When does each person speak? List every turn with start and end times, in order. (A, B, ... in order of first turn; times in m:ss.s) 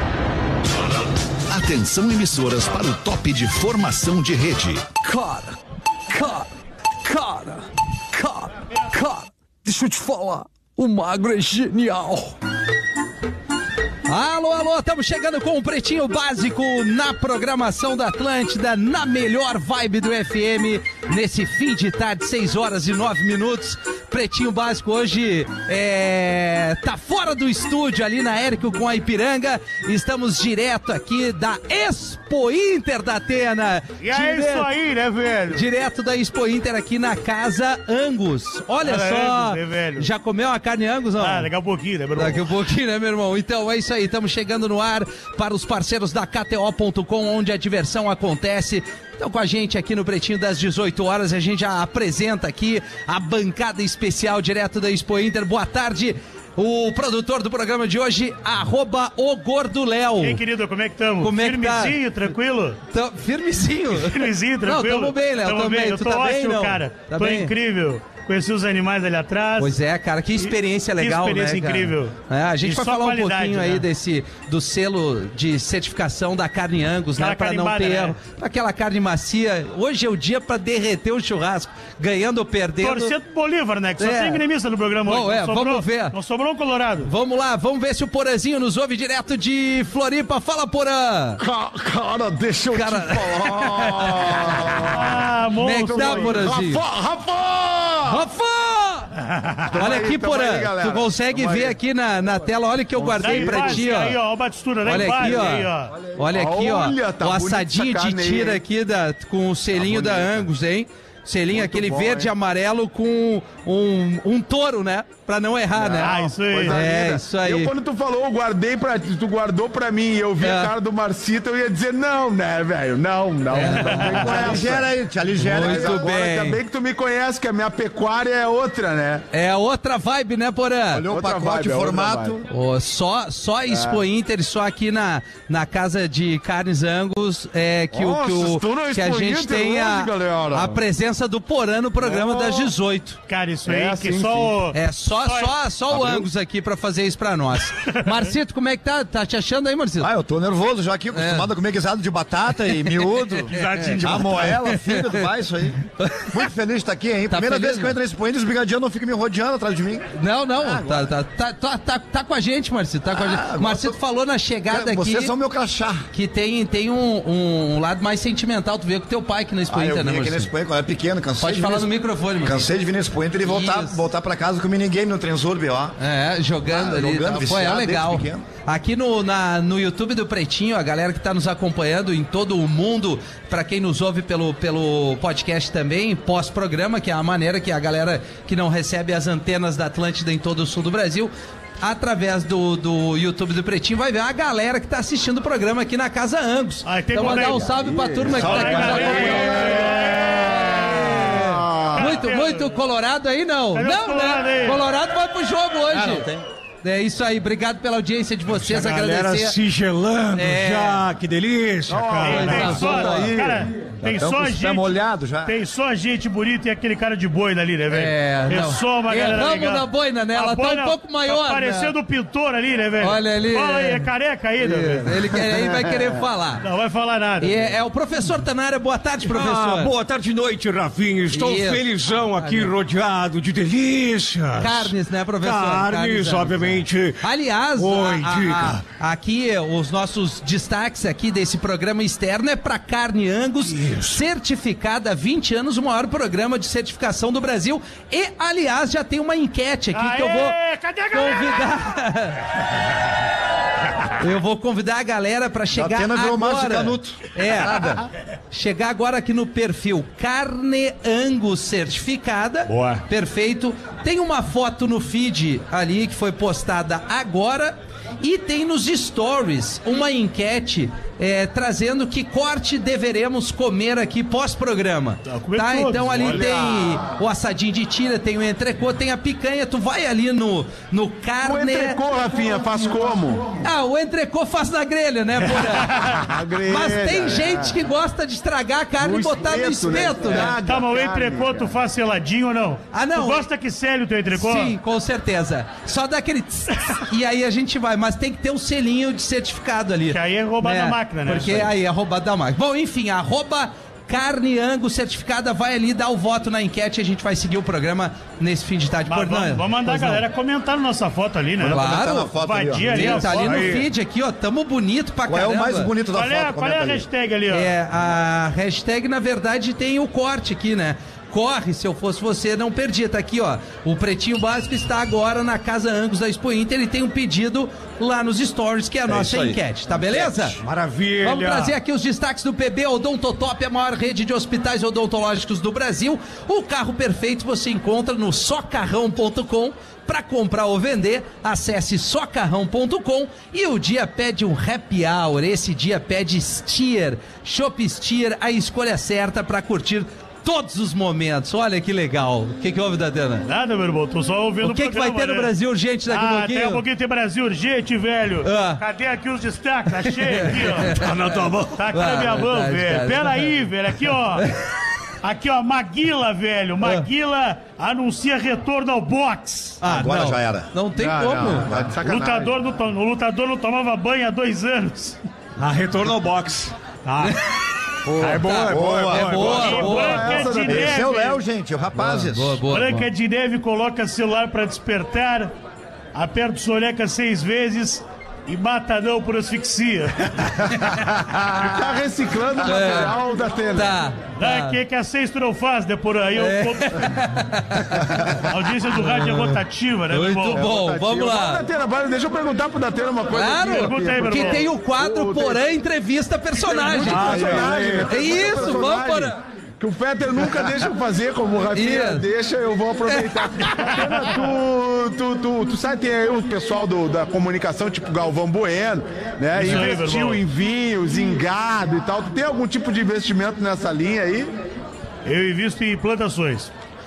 0:01.5-0:05.0 A
0:05.0-0:05.6 B
0:06.1-0:06.5 B
0:07.0-0:12.4 B
0:14.1-0:34.7 B
0:34.0-0:35.7 C
0:35.5-0:41.5 B
0:38.8-0:40.1 C
0:41.2-0:42.4 C
0:42.2-1:00.4 B
1:00.2-1:02.8 C
1:01.2-1:02.0 B
1:02.9-1:07.5 B
1:03.9-1:09.8 C
1:09.6-1:23.1 B
1:10.4-1:13.8 C
1:17.2-1:18.2 C
1:22.8-1:27.1 C
1:24.0-1:24.4 B
1:25.1-1:26.1 B
1:27.0-1:31.4 B
1:31.4-1:35.2 D
1:32.7-1:34.8 B
1:34.9-1:36.5 C
1:35.6-1:36.8 B
1:35.9-1:38.2 D
1:38.0-1:39.1 B
1:39.7-1:41.8 D
1:39.8-1:44.2 B
1:43.0-1:43.9 D
1:43.2-1:45.9 C
1:44.8-1:57.7 B
1:45.9-1:46.2 E
1:46.3-1:48.6 D
1:49.7-1:50.5 D
1:51.5-1:52.3 D
1:55.7-2:09.2 D
1:56.0-1:56.8 C
2:00.4-2:00.7 B
2:03.5-2:04.7 B
2:03.8-2:04.5 C
2:04.0-2:06.0 E
2:05.4-2:06.6 B
2:09.3-2:11.0 B
2:10.9-2:12.5 E
2:11.1-2:12.4 D
2:12.5-2:23.2 B
2:13.7-2:14.0 D
2:17.9-2:20.8 D
2:22.0-2:22.7 D
2:23.3-2:25.5 C
2:23.6-2:24.5 D
2:24.7-2:30.1 B
2:25.9-2:26.3 E
2:30.0-2:40.0 E
2:31.1-2:31.5 B
2:32.8-2:35.3 B
2:33.5-2:34.6 F
2:36.0-2:36.5 B
2:37.3-2:38.0 B
2:40.1-2:45.3 B
2:40.6-2:41.1 E
2:43.1-2:44.0 E
2:44.7-2:46.1 E
2:46.1-2:50.5 B
2:49.7-2:56.0 E
2:51.4-2:52.7 B
2:53.4-2:54.0 B
2:56.0-3:26.3 B
2:56.7-2:58.4 E
3:16.8-3:17.7 C
3:17.4-3:22.1 D
3:18.2-3:19.9 E
3:18.4-3:21.2 C
3:21.9-3:22.8 C
3:23.7-3:24.8 C
3:25.9-3:26.4 E
3:26.8-3:29.6 B
3:28.5-3:32.7 F
3:30.3-3:31.0 B
3:31.9-3:33.7 D
3:32.2-3:33.3 B
3:32.2-3:45.3 C
3:34.0-3:35.5 E
3:37.9-3:41.9 B
3:43.0-3:44.1 B
3:44.6-3:46.6 B
3:45.4-3:46.2 D
3:46.6-3:47.8 C
3:47.4-3:49.9 B
3:49.2-3:58.8 F
3:51.3-3:52.7 B
3:54.6-4:10.5 B
4:03.6-4:04.2 F
4:09.9-4:11.7 C
4:11.1-4:12.4 B
4:14.2-4:17.9 B
4:15.7-4:18.0 E
4:18.5-4:42.0 B
4:22.7-4:23.0 F
4:35.2-4:36.6 C
4:36.3-4:37.0 D
4:41.4-4:43.5 D
4:43.6-4:50.6 B
4:45.7-4:46.2 C
4:46.2-4:47.8 D
4:49.0-4:51.7 D
4:50.3-4:54.8 C
4:52.9-4:53.4 B
4:54.3-5:10.2 B
5:00.1-5:01.7 C
5:09.1-5:13.8 C
5:11.6-5:12.3 B
5:11.6-5:13.4 E
5:12.8-5:15.9 B
5:13.4-5:13.9 F
5:15.3-5:17.0 E
5:16.1-5:17.7 C
5:17.5-5:30.6 B
5:29.1-5:30.6 E
5:30.6-5:31.7 F
5:31.2-5:53.4 B
5:53.4-5:55.5 C
5:54.6-5:56.8 B
5:56.1-6:01.0 C
5:58.4-5:58.8 B
6:00.0-6:03.5 B
6:00.8-6:01.8 F
6:01.7-6:04.5 C
6:05.2-6:09.8 C
6:06.8-6:07.1 B
6:09.8-6:11.7 B
6:09.8-6:10.7 E
6:10.9-6:12.6 D
6:11.4-6:12.0 E
6:12.0-6:15.2 C
6:15.6-6:17.4 F
6:18.0-6:18.5 D
6:18.2-6:20.1 F
6:18.4-6:20.5 B
6:18.7-6:19.8 E
6:19.4-6:21.4 C
6:19.5-6:21.1 D
6:20.6-6:22.6 E
6:21.9-6:23.1 B
6:22.7-6:25.5 C
6:26.1-6:30.6 C
6:31.6-6:33.9 D
6:32.6-6:33.2 B
6:33.7-6:34.8 B
6:34.4-6:37.2 C
6:36.4-6:39.6 B
6:38.3-6:40.6 C
6:40.1-6:41.6 B
6:40.2-6:45.6 D
6:43.3-6:49.4 B
6:43.6-6:44.6 C
6:46.6-7:04.5 D
6:47.0-6:48.3 F
6:51.7-6:52.2 B
6:53.1-6:53.7 B
6:54.0-6:54.3 C
6:59.5-7:00.4 C
7:05.2-7:06.7 C